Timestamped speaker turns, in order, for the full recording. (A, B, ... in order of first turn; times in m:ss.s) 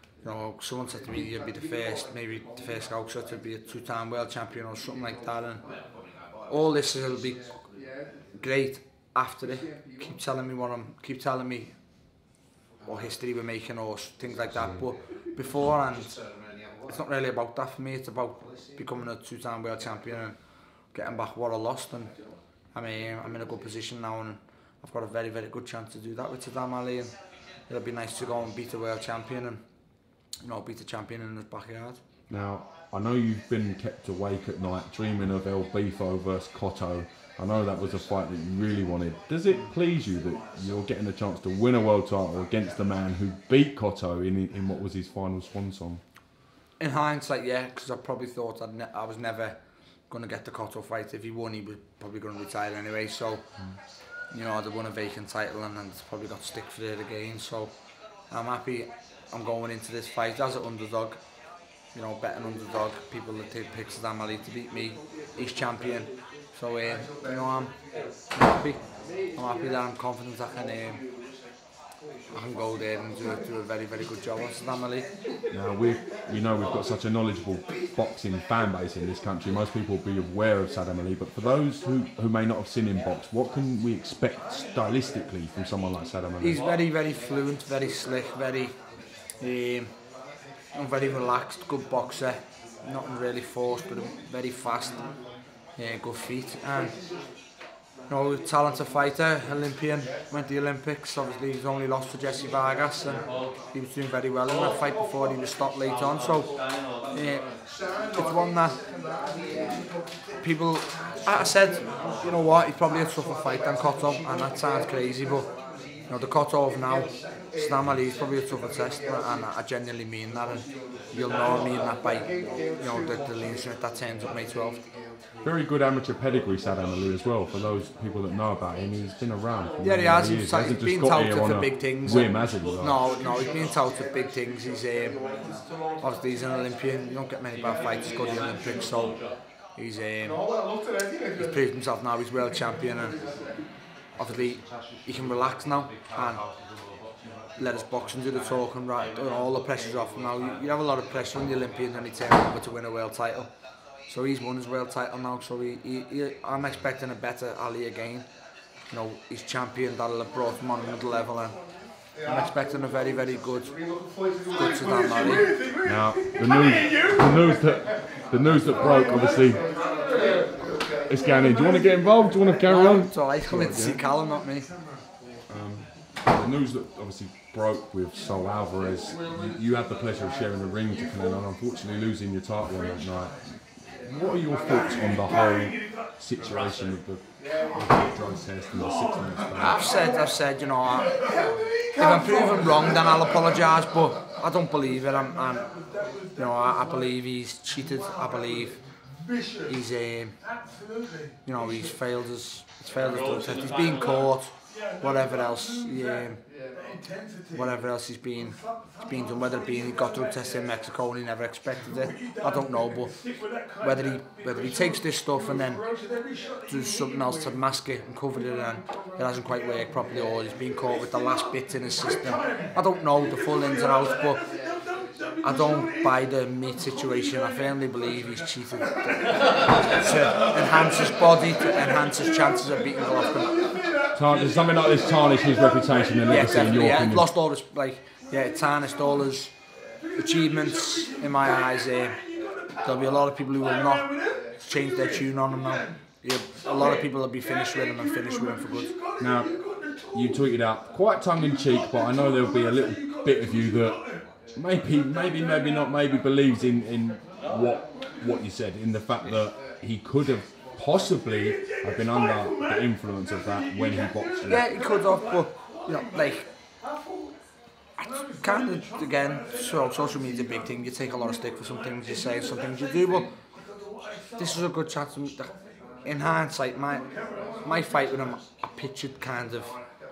0:00.2-0:05.6 A
0:06.5-0:07.4 A
0:08.4-0:11.7 A
0:12.8-0:16.2 A
0:16.8-0:20.4 A
0:20.9-0:22.1 A
0:22.7-0:27.2 A
0:27.7-0:29.6 A
0:30.4-0:32.0 A
0:32.3-0:46.0 B
0:46.8-0:53.4 A
0:54.3-0:57.7 A
0:58.3-1:01.2 A
1:01.9-1:07.7 A
1:08.3-1:08.8 A
1:09.3-1:11.0 A
1:12.3-1:15.1 A
1:15.5-1:26.6 B
1:26.4-1:28.8 A
1:29.4-1:29.9 A
1:30.7-1:35.0 A
1:35.8-1:37.0 A
1:38.1-1:43.2 A
1:43.7-1:46.5 A
1:47.1-1:47.5 A
1:48.1-1:48.8 A
1:50.4-1:55.5 A
1:56.1-2:04.8 A
2:05.4-2:13.0 B
2:09.8-2:15.2 A
2:16.0-2:19.2 A
2:19.8-2:20.4 A
2:21.3-2:23.1 A
2:24.2-2:26.4 A
2:27.6-2:33.5 A
2:34.1-2:38.3 A
2:38.9-2:41.6 A
2:42.2-2:43.8 A
2:44.5-2:45.5 A
2:45.8-2:49.6 B
2:51.1-2:54.0 B
2:52.6-2:54.7 A
2:55.5-3:03.4 B
3:04.0-3:09.8 B
3:09.6-3:11.2 A
3:12.0-3:15.7 A
3:16.4-3:18.8 A
3:19.6-3:20.3 A
3:21.4-3:26.4 A
3:27.5-3:28.6 A
3:29.1-3:33.2 A
3:33.8-3:35.8 A
3:36.7-3:44.4 A
3:45.4-3:53.7 A
3:54.1-3:57.3 B
3:56.3-3:59.5 A
4:00.1-4:02.2 A
4:02.8-4:08.9 A
4:09.2-4:09.5 B
4:10.1-4:14.0 B
4:14.5-4:24.7 B
4:24.4-4:26.5 A
4:28.0-4:33.3 A
4:34.4-4:35.5 A
4:36.0-4:37.0 A
4:37.6-4:39.8 A